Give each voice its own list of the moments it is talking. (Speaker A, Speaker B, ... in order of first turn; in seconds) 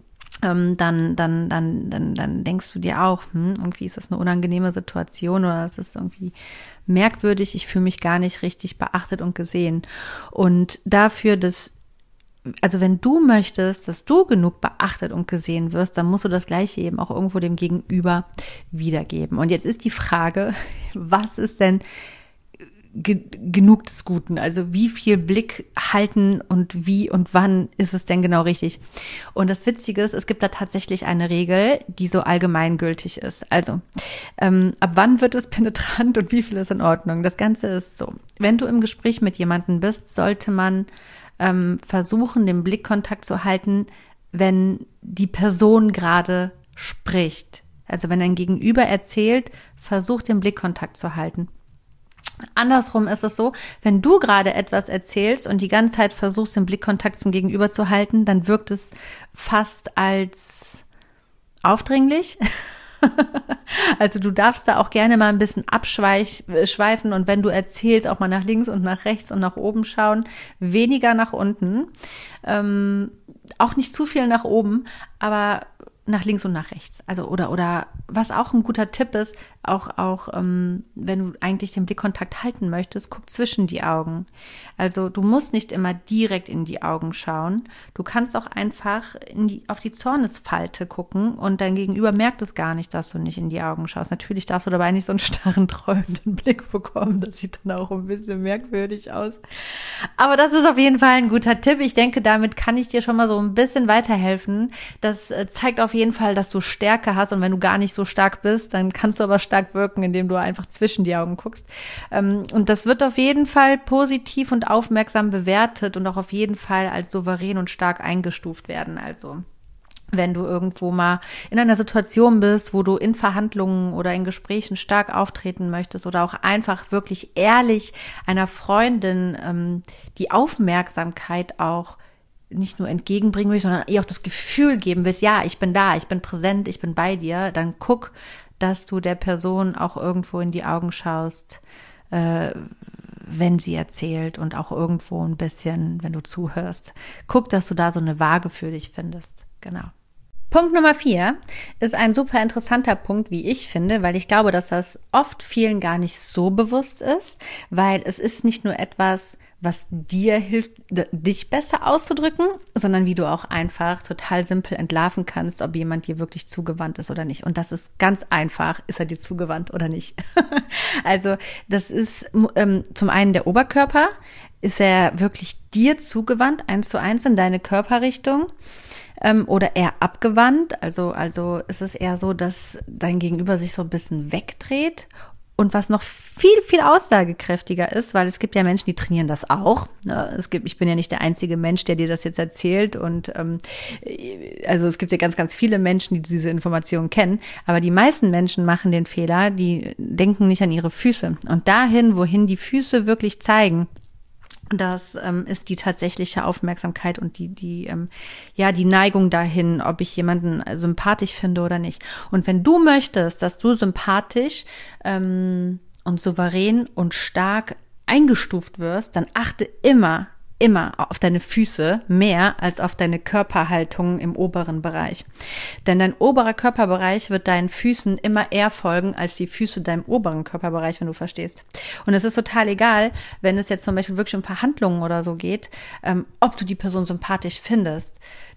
Speaker A: 0.4-6.3, 6.9-11.7, 12.6-21.8, 22.9-28.8, 29.4-33.8, 34.4-40.9, 41.4-51.5, 52.6-60.9, 61.6-62.4, 63.0-71.9, 72.4-84.3, 84.8-119.4, 120.1-132.0, 132.5-142.7, 143.3-149.9, 150.5-178.5, 179.2-203.9, 204.7-225.2, 225.8-238.2